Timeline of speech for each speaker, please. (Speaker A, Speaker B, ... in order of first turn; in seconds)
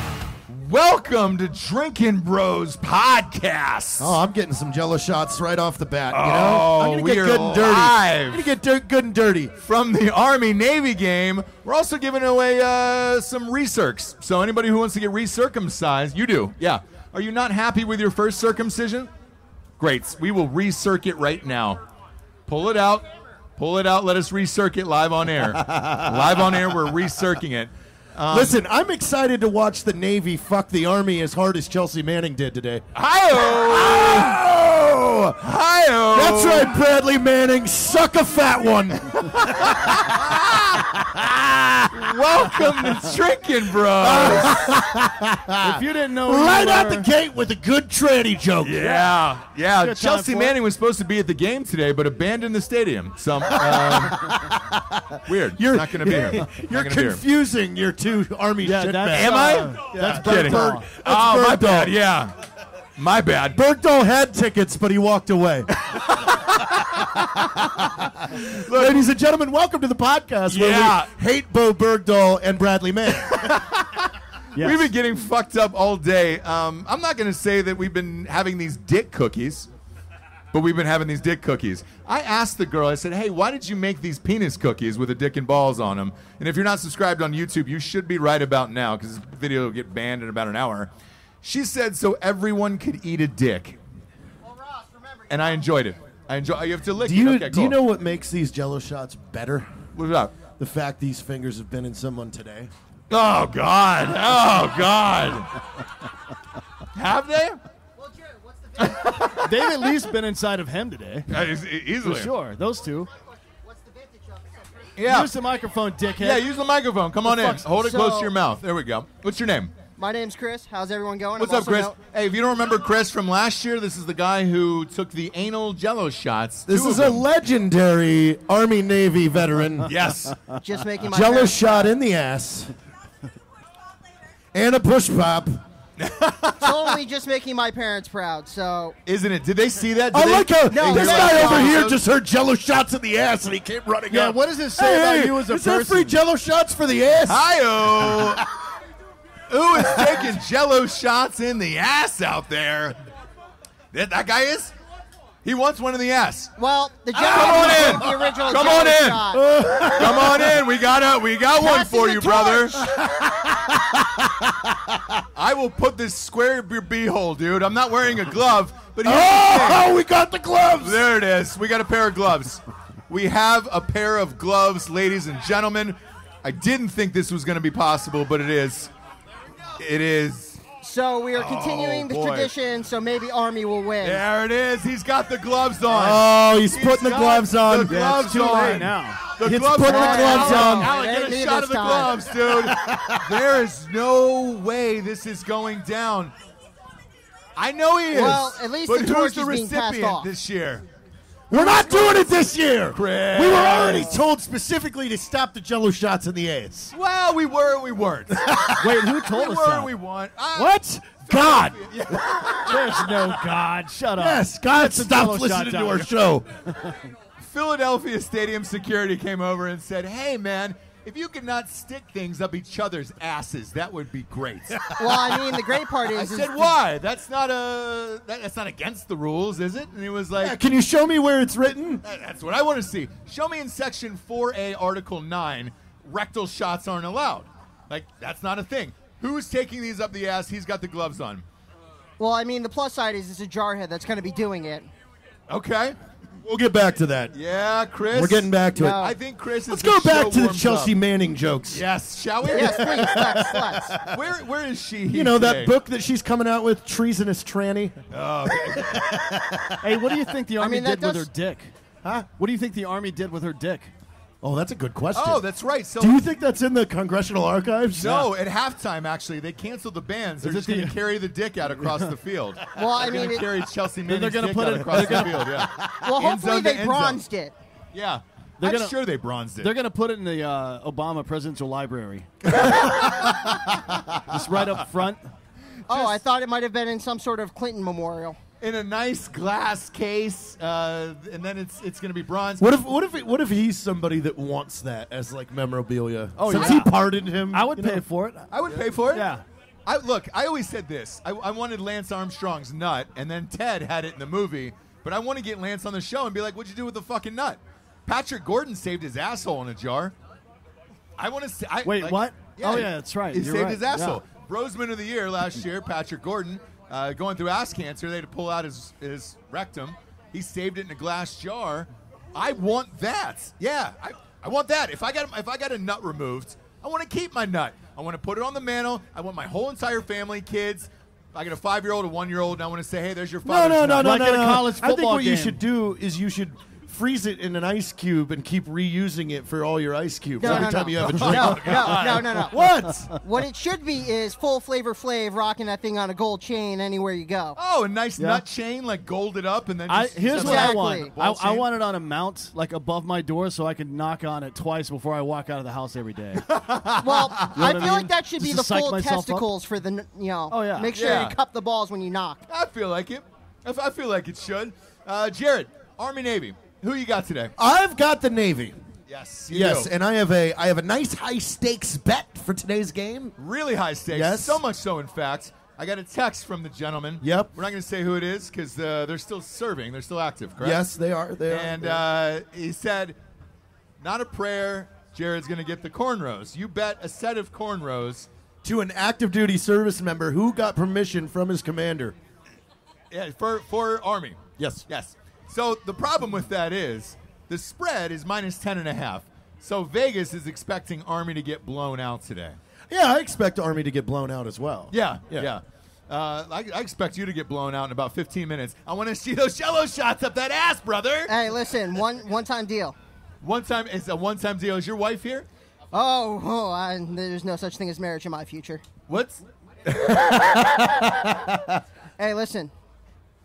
Speaker A: 0.5-4.2, 6.1-8.5, 9.6-19.1, 19.8-21.8, 22.5-28.6, 33.0-36.8, 40.0-40.8, 41.9-44.7, 48.6-54.4, 55.3-57.2, 59.1-62.4, 63.0-63.6, 65.9-66.8, 68.6-69.1, 70.5-71.1, 73.4-74.0, 74.6-79.7, 80.5-90.9, 91.4-93.8, 95.3-97.8, 100.0-100.4, 103.1-105.6, 107.0-107.6, 108.8-109.8, 111.3-112.3, 115.0-115.3, 116.2-119.7, 121.4-127.2, 129.8-130.4, 136.0-136.9, 139.1-142.0, 147.3-148.4, 149.5-152.9, 153.9-154.7, 155.4-156.6, 157.1-159.3, 159.8-162.9, 165.4-169.9, 170.8-178.9, 179.8-180.7, 181.3-182.5, 184.0-196.3, 197.6-200.8, 201.5-202.3, 202.9-204.2, 206.9-213.1, 217.4-224.9, 226.1-230.6, 232.0-241.4, 245.5-246.0, 247.3-250.9, 251.7-253.1, 254.0-255.7, 258.1-259.2, 265.1-266.2, 268.0-277.2, 277.9-279.7, 282.5-284.2, 285.9-286.2, 288.6-292.7, 298.5-299.3, 299.9-310.1, 311.2-334.2, 341.1-342.4, 347.6-351.7, 356.4-357.7, 360.9-361.4, 362.5-367.5, 369.1-369.9, 373.4-380.8, 381.5-383.2, 384.0-388.3, 393.1-402.6, 404.9-411.4, 413.4-415.5, 419.1-420.9
Speaker B: 4.0-9.6, 25.6-26.7, 28.3-32.9, 33.4-34.4, 36.1-43.0, 43.9-49.1, 53.7-61.9, 63.5-65.7, 67.0-73.6, 97.0-99.8, 100.6-102.7, 126.7-129.9, 131.1-132.7, 134.5-135.6, 140.1-148.4, 149.8-150.2, 157.2-160.7, 161.6-165.0, 169.0-171.0, 185.9-188.8, 189.4-191.0, 192.4-193.4, 201.5-206.9, 208.5-209.0, 210.6-212.6, 214.2-216.7, 230.4-232.0, 246.4-247.3, 248.1-249.1, 249.7-251.8, 252.4-254.1, 255.1-258.0, 258.6-260.2, 262.0-262.3, 264.4-265.4, 266.0-268.3, 292.6-298.0, 333.4-343.1, 367.6-368.8, 369.5-373.3, 374.1-374.6, 377.2-377.5, 380.6-382.0, 388.6-392.2, 394.6-394.8, 402.9-405.5, 420.3-421.6
Speaker C: 45.6-47.1, 49.7-50.6, 58.6-61.0, 74.6-74.9, 109.4-111.3, 112.0-113.1, 115.0-116.5, 117.2-118.4, 144.1-146.2, 187.9-190.8, 208.8-209.9, 212.7-216.1, 259.8-261.8, 262.4-263.9, 270.4-271.0, 274.1-275.7, 278.6-282.6, 284.3-285.2, 296.4-296.9, 297.5-299.4, 311.8-314.2, 334.0-335.6, 340.5-342.0, 348.2-348.5, 349.9-356.5, 357.5-359.5, 360.5-361.0
Speaker D: 120.0-122.0, 130.6-131.9, 136.6-139.0, 140.7-141.8, 156.6-159.4, 161.6-162.7, 180.8-184.2, 189.8-192.3, 198.1-200.3, 225.0-226.8, 242.2-244.9, 248.7-249.2, 252.5-254.0, 260.6-261.3, 272.8-273.5, 275.9-277.6, 285.9-288.4, 340.4-347.6, 350.3-351.1, 357.0-362.4, 411.3-412.9, 415.9-418.9, 422.2-422.7